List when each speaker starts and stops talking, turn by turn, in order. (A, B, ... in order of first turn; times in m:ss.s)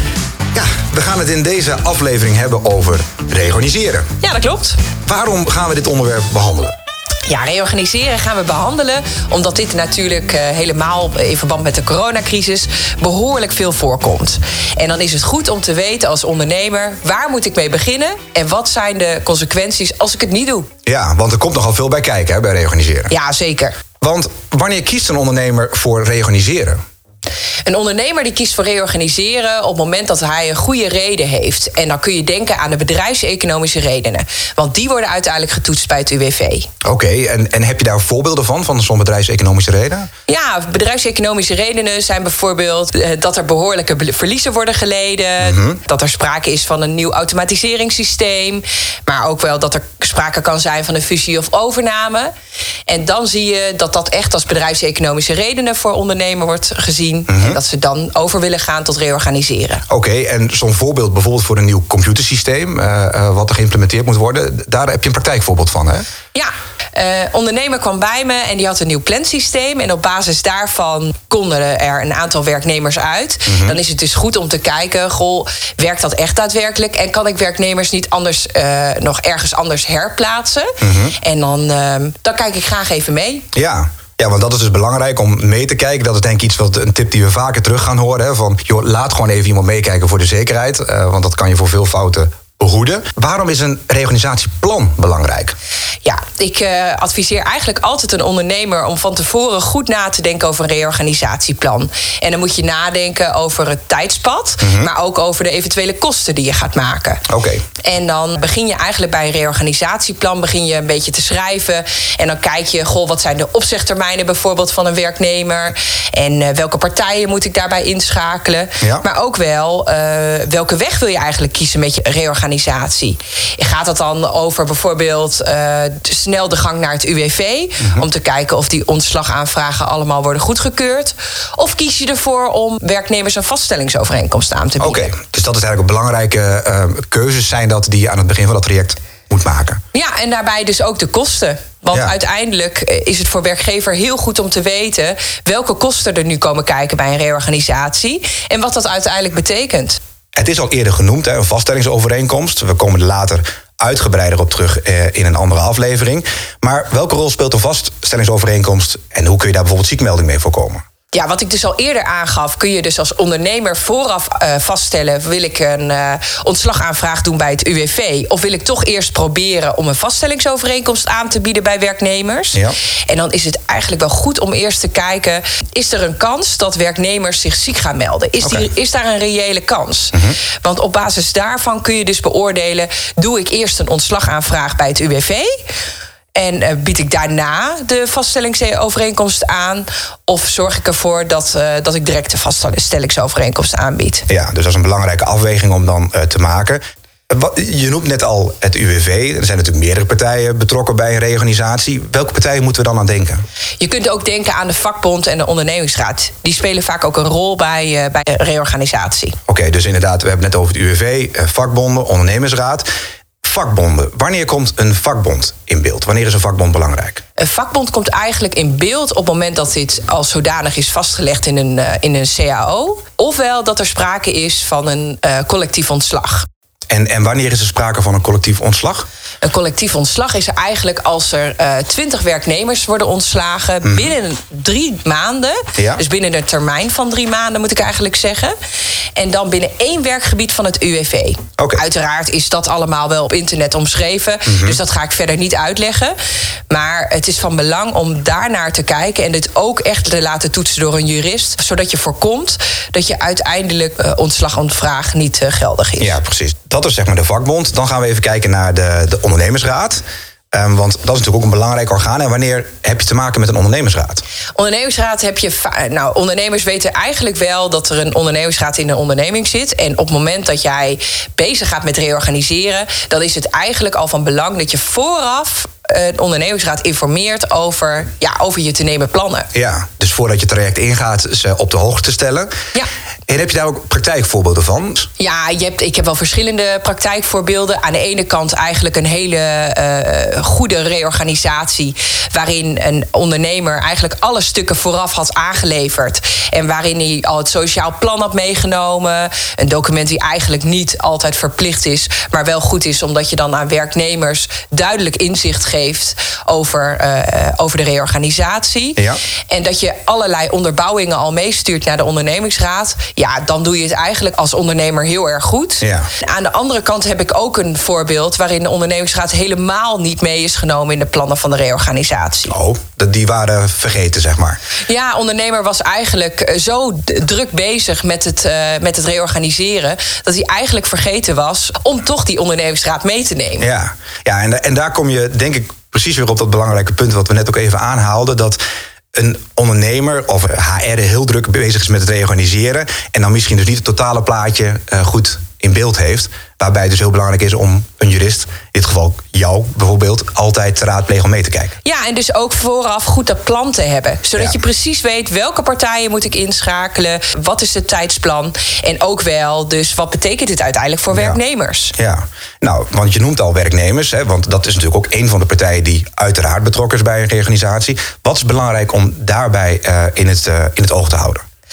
0:00.5-0:04.1 A
0:04.2-0:04.8 B
0:05.0-0:06.7 A
0:07.2-0:20.7 B
0:20.8-0:23.1 A
0:23.1-0:23.8 B
0:24.0-0:26.8 A
0:27.6-0:36.7 B
0:36.8-0:40.1 A
0:40.3-0:52.3 B
0:45.4-0:45.8 A
0:52.9-0:59.8 B
0:57.3-0:57.6 A
0:59.9-1:06.0 A
1:06.3-1:23.4 B
1:13.4-1:13.8 A
1:20.8-1:21.1 A
1:23.5-1:35.5 A
1:36.0-1:47.2 B
1:44.6-1:44.9 A
1:47.3-1:47.6 A
1:47.8-2:15.1 B
2:14.8-2:19.8 A
2:19.9-2:30.0 B
2:30.3-2:40.8 A
2:41.1-3:05.6 B
2:58.4-2:58.7 A
3:06.3-3:14.2 B
3:14.3-3:23.4 A
3:23.8-3:29.4 B
3:29.5-3:32.8 A
3:33.4-3:37.2 A
3:37.4-3:46.4 B
3:46.9-3:49.1 A
3:49.4-3:58.5 B
3:53.8-3:54.1 A
3:55.8-3:56.0 A
3:59.2-4:06.1 B
4:01.6-4:01.8 A
4:04.4-4:04.8 A
4:06.7-4:16.2 B
4:16.0-4:20.0 A
4:20.5-4:24.2 A
4:24.5-4:39.5 B
4:39.5-4:42.5 A
4:43.3-4:45.1 A
4:45.2-5:22.5 B
5:15.8-5:16.1 A
5:22.5-5:24.6 A
5:24.9-5:33.6 B
5:33.6-5:38.6 A
5:39.1-5:51.7 A
5:51.8-6:01.9 B
6:01.1-6:01.4 A
6:02.0-6:11.4 A